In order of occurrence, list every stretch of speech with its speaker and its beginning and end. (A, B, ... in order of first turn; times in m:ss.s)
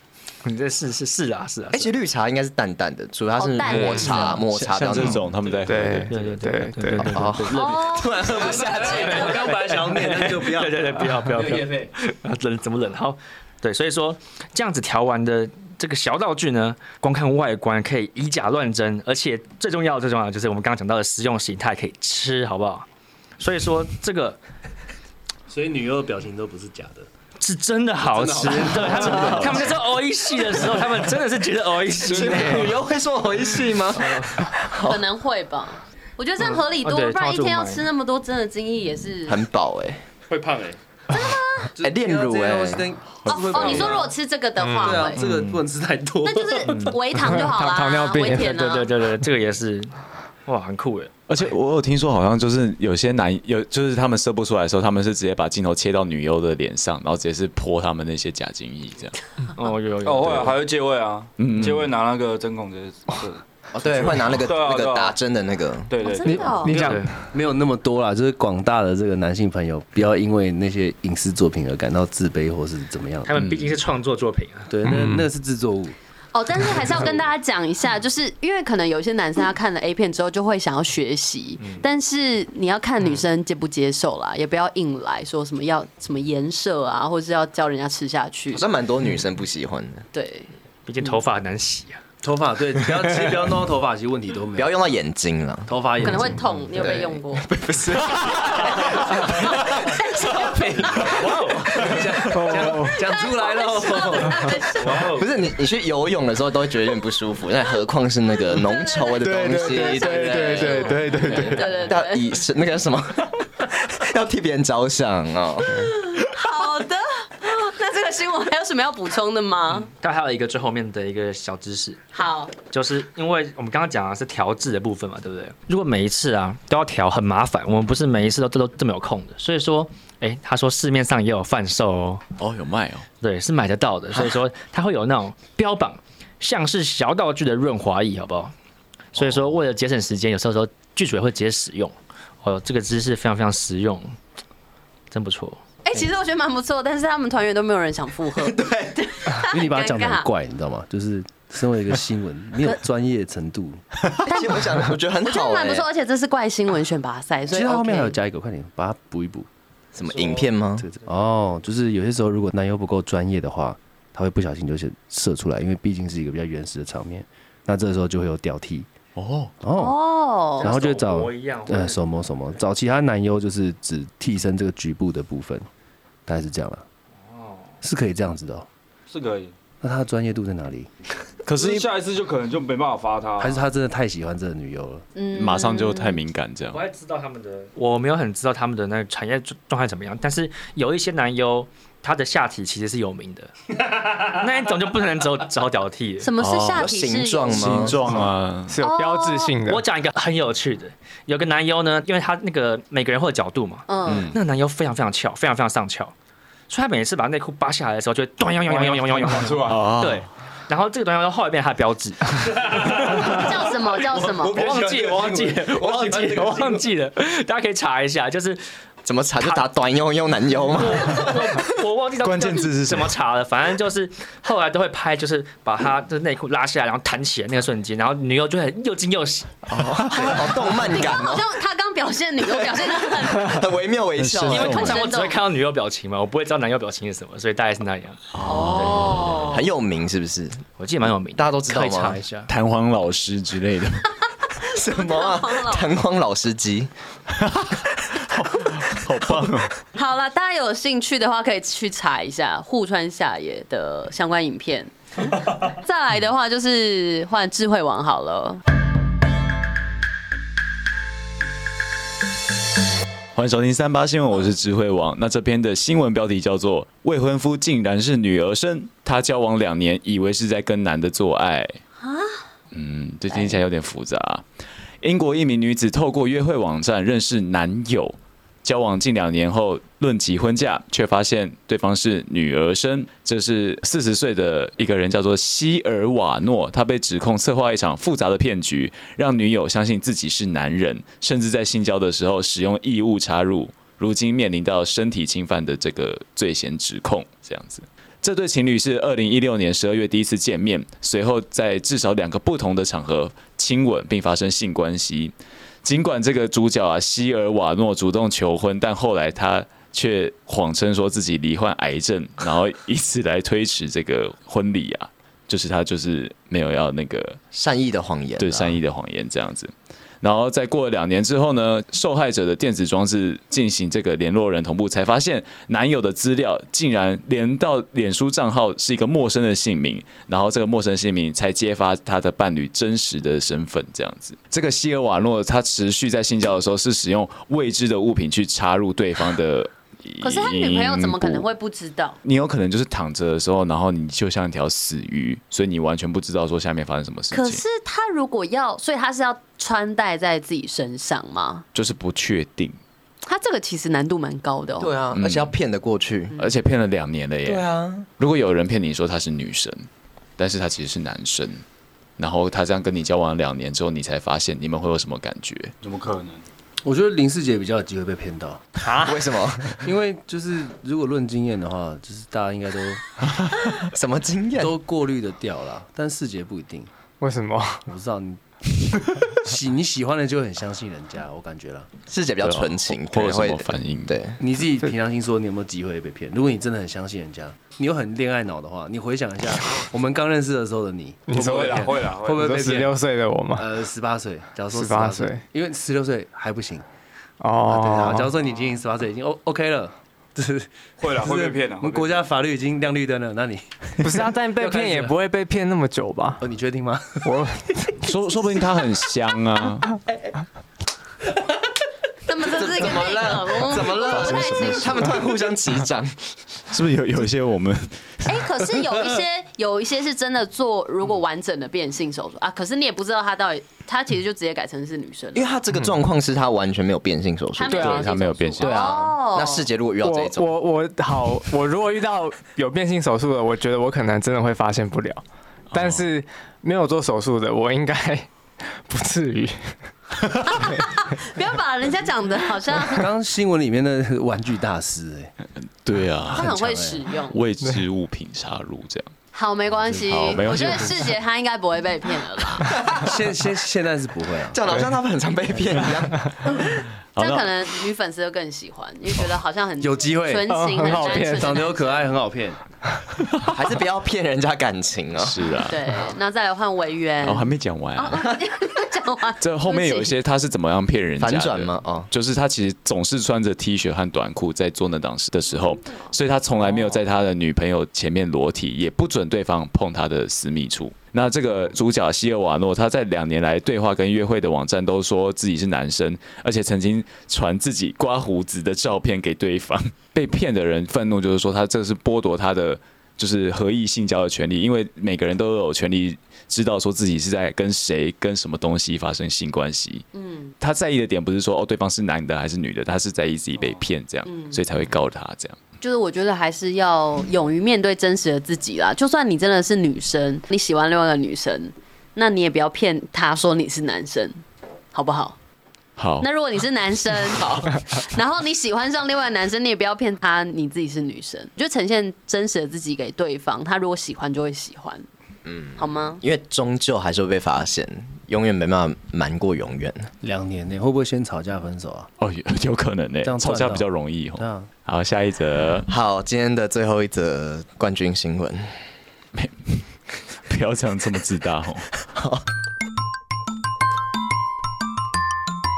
0:00.4-0:01.9 A
0:01.7-0:05.2 B
0:03.4-0:04.4 C
0:04.4-0:06.2 D
0:05.7-0:07.3 E
0:06.1-0:07.9 A
0:07.0-0:09.3 B
0:07.5-0:09.2 C
0:08.2-0:11.7 F
0:08.9-0:22.9 A
0:23.4-0:24.4 A
0:25.5-0:27.1 F
0:27.4-0:32.7 A
0:28.0-0:29.8 F
0:29.0-0:29.6 B
0:32.1-0:35.0 B
0:32.1-0:32.7 G
0:34.0-0:34.5 A
0:34.8-0:39.4 C
0:36.4-0:37.9 A
0:39.3-0:40.0 B
0:40.3-0:40.8 F
0:41.1-0:41.7 C
0:41.8-0:44.1 F
0:41.8-0:42.8 B
0:43.3-0:45.2 C
0:43.6-0:43.9 D
0:44.6-0:45.1 E
0:44.8-0:46.9 F
0:46.2-0:48.9 C
0:47.2-0:48.8 E
0:48.5-0:49.9 A
0:50.5-0:51.1 A
0:51.3-0:59.2 D
0:59.6-1:00.6 A
1:00.0-1:03.4 G
1:01.4-1:02.0 D
1:03.7-1:05.9 B
1:04.0-1:05.2 G
1:05.9-1:06.7 G
1:06.0-1:06.8 C
1:06.3-1:07.1 E
1:06.7-1:07.2 A
1:06.7-1:13.4 F
1:13.3-1:14.8 A
1:13.4-1:13.7 D
1:14.7-1:16.0 F
1:16.3-1:28.7 C
1:21.6-1:21.8 A
1:28.5-1:30.1 B
1:30.1-1:30.5 C
1:30.9-1:32.0 A
1:32.2-1:34.8 F
1:34.6-1:35.7 B
1:35.7-1:37.0 F
1:36.0-1:37.5 C
1:36.8-1:41.2 B
1:38.9-1:41.2 C
1:40.6-1:44.7 F
1:41.0-1:41.8 A
1:42.3-1:43.0 E
1:42.7-1:45.1 C
1:44.8-1:45.3 A
1:45.1-1:56.0 B
1:48.5-1:52.4 C
1:49.3-1:51.7 E
1:50.7-1:51.1 D
1:55.9-1:59.9 C
1:59.8-2:02.0 A
2:02.1-2:02.5 C
2:02.6-2:12.2 A
2:12.4-2:13.1 D
2:13.2-2:18.5 A
2:19.2-2:24.2 A
2:25.1-2:25.6 A
2:25.8-2:30.3 C
2:28.4-2:29.0 B
2:29.4-2:33.8 F
2:34.2-2:35.9 B
2:34.3-2:34.6 C
2:35.2-2:38.2 C
2:37.5-2:39.5 F
2:39.9-2:40.9 B
2:40.0-2:40.5 A
2:40.8-2:48.9 F
2:49.2-2:49.5 D
2:49.6-2:50.0 F
2:49.8-2:50.7 C
2:50.6-2:52.1 A
2:50.6-2:55.7 F
2:56.3-2:56.9 F
2:57.2-2:57.7 A
2:57.8-2:58.7 F
2:59.1-2:59.5 G
2:59.8-3:00.9 F
3:01.5-3:01.9 D
3:01.6-3:03.6 G
3:03.4-3:05.1 F
3:05.2-3:06.2 C
3:05.3-3:06.8 D
3:06.7-3:13.5 A
3:14.1-3:16.3 A
3:16.2-3:17.9 C
3:16.4-3:16.9 D
3:16.8-3:18.0 B
3:17.5-3:18.8 D
3:18.7-3:19.8 E
3:18.8-3:19.6 C
3:19.7-3:26.2 A
3:23.9-3:24.3 C
3:24.1-3:24.4 D
3:26.7-3:33.4 A
3:28.6-3:29.9 G
3:29.7-3:30.3 D
3:33.3-3:34.7 C
3:34.4-3:36.8 F
3:34.4-3:38.6 A
3:34.7-3:35.3 G
3:39.0-3:41.4 B
3:40.6-3:49.6 A
3:42.2-3:43.1 D
3:49.7-3:51.5 B
3:50.3-3:53.7 C
3:52.8-3:54.9 B
3:54.2-3:55.1 D
3:54.5-3:59.5 A
3:54.6-3:55.4 C
3:58.3-3:59.5 D
3:58.5-3:59.6 C
3:58.5-4:00.6 B
4:00.8-4:02.5 A
4:01.4-4:02.2 B
4:02.5-4:04.1 D
4:04.7-4:06.9 B
4:04.7-4:05.9 C
4:07.3-4:09.8 D
4:09.9-4:14.9 C
4:15.6-4:18.6 C
4:23.4-4:31.8 D
4:32.0-4:32.5 C
4:32.7-4:34.4 D
4:33.3-4:33.6 C
4:35.0-5:17.4 D
5:17.5-5:18.8 B
5:18.4-5:41.4 D
5:40.2-5:42.2 C
5:42.2-5:47.6 D
5:47.3-5:51.6 C
5:51.7-5:52.8 D
5:53.3-5:54.9 C
5:54.8-5:56.4 B
5:55.1-5:55.6 D
5:56.3-5:57.7 D
5:57.5-5:58.1 B
5:58.2-6:01.6 D
6:02.2-6:05.7 D
6:05.8-6:06.4 G
6:06.8-6:08.6 F
6:08.8-6:09.2 E
6:09.0-6:09.8 B
6:09.8-6:13.0 F
6:13.8-6:14.8 B
6:14.6-6:16.9 F
6:17.2-6:17.8 E
6:17.9-6:21.9 F
6:22.1-6:24.4 B
6:22.4-6:24.2 D
6:24.4-6:33.0 F
6:31.3-6:33.7 E
6:31.3-6:32.5 G
6:33.6-6:36.9 F
6:34.7-6:35.4 E
6:37.4-6:38.3 E
6:37.7-6:45.2 F
6:41.0-6:42.2 G
6:44.0-6:46.4 E
6:46.4-6:47.5 F
6:47.2-6:48.0 E
6:48.0-6:50.0 D
6:52.3-6:55.1 C
6:52.5-6:56.2 B
6:54.1-6:55.1 D
6:56.7-6:58.4 D
6:58.2-7:05.5 C
7:05.4-7:08.0 B
7:07.6-7:09.6 C
7:07.7-7:08.1 E
7:07.7-7:09.0 D
7:08.6-7:09.0 E
7:08.9-7:10.6 B
7:10.0-7:19.8 E
7:15.7-7:16.1 D
7:20.5-7:23.1 C
7:22.9-7:25.3 F
7:25.8-7:26.5 D
7:26.3-7:27.4 C
7:26.4-7:27.1 F
7:27.3-7:29.1 D
7:29.3-7:32.7 C
7:29.8-7:31.0 F
7:30.1-7:31.2 D
7:32.9-7:34.8 F
7:34.5-7:36.6 B
7:37.2-7:37.5 D
7:37.2-7:42.1 C
7:39.8-7:42.6 F
7:40.5-7:41.6 E
7:43.5-7:45.5 B
7:45.2-7:45.8 D
7:45.6-7:50.1 C
7:47.2-7:48.4 D
7:49.4-8:20.0 D
7:51.2-7:52.1 B
8:20.1-8:20.5 C
8:20.6-8:25.6 D
8:24.3-8:24.6 C
8:25.8-8:34.4 C
8:34.9-8:35.4 C
8:36.0-8:36.3 D
8:36.2-8:45.1 C
8:37.4-8:37.7 B
8:45.4-8:50.1 B
8:45.8-8:46.2 C
8:50.2-8:52.1 F
8:52.2-8:55.9 D
8:53.2-8:54.7 F
8:55.9-8:58.8 B
8:59.4-8:59.8 D
9:00.5-9:01.8 D
9:02.2-9:02.4 B